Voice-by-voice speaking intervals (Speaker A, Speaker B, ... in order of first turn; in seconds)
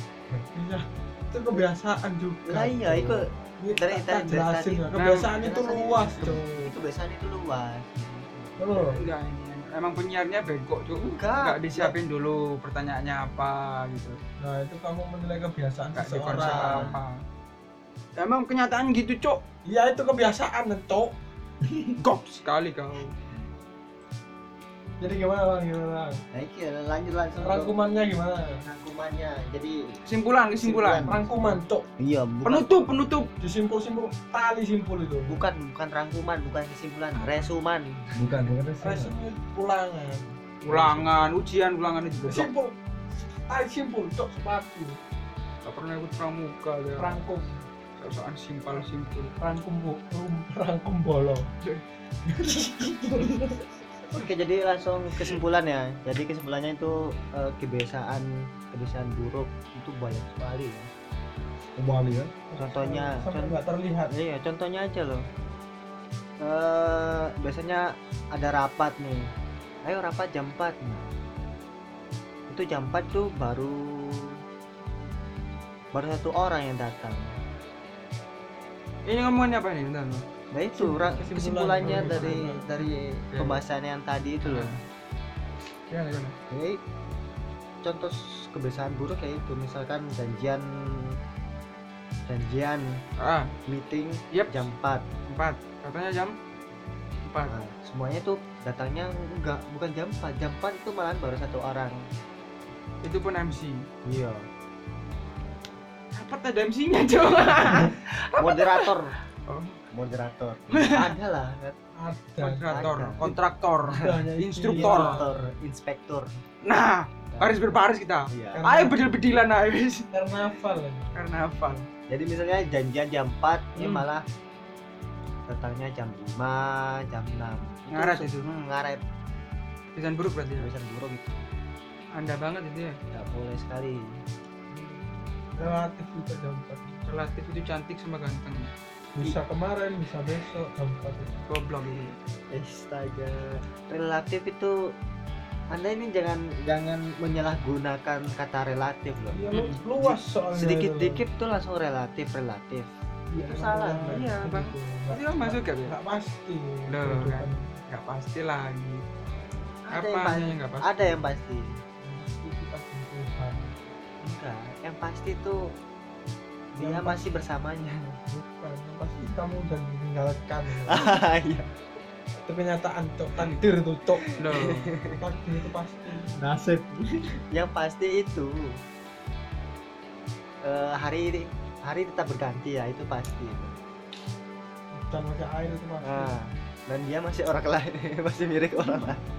Speaker A: 0.5-6.7, 8.6-9.0, 14.4-16.9, 19.6-21.9, 25.0-26.2, 27.4-28.6, 31.0-31.8, 33.4-35.4, 38.8-41.2, 42.2-42.8, 43.5-45.0, 47.0-47.6, 49.4-51.5, 52.2-53.6, 62.5-64.1, 80.7-82.7, 112.0-113.3, 113.9-115.5, 118.5-119.0, 120.1-121.2, 134.7-137.0, 139.2-141.4, 149.3-151.2, 153.3-157.7, 162.0-163.9, 166.8-167.2, 168.2-171.1, 172.4-174.3, 175.1-176.4, 184.9-186.4
Speaker B: 2.5-9.0, 10.9-12.0, 16.3-17.0, 26.3-27.8, 28.6-29.8, 30.6-32.9, 35.2-38.1, 54.1-60.9, 62.6-65.2, 66.4-69.3, 69.8-71.1, 72.5-74.4, 75.9-77.4, 80.5-84.8, 86.5-86.8, 87.8-91.2, 92.2-93.0, 93.7-95.0, 97.5-102.0, 104.0-104.5, 108.4-109.1, 109.9-111.8, 112.6-113.3, 114.7-116.3, 117.3-117.7, 118.3-118.6, 122.1-124.2, 125.5-129.0, 130.6-131.4, 133.1-134.2, 142.5-144.8, 145.7-149.4, 150.0-152.9, 153.4-154.3, 159.8-161.7, 164.2-165.7, 166.7-168.2, 170.8-171.7, 174.2-175.2, 177.5-178.7, 180.6-183.8, 186.0-189.2
Speaker C: 4.9-5.3, 8.9-14.2, 15.9-17.2, 18.2-19.4, 22.0-23.1, 30.0-31.1, 32.4-33.3, 40.6-42.5, 45.6-47.2, 48.0-49.3, 79.0-80.2, 81.8-83.6, 84.4-84.8, 85.9-86.3, 93.2-93.5, 94.3-94.6, 95.3-96.3, 97.3-97.5, 103.0-103.8, 106.1-108.9, 109.5-109.8, 110.7-111.1, 112.4-115.2, 116.6-120.1, 121.1-121.9, 123.8-124.0, 127.9-128.5, 129.9-130.7, 132.1-133.0, 137.1-138.7, 141.5-142.2, 149.5-149.8, 154.0-155.9, 156.9-159.0, 159.9-161.2, 174.4-174.9
Speaker D: 38.1-39.1, 61.8-62.3, 176.4-177.2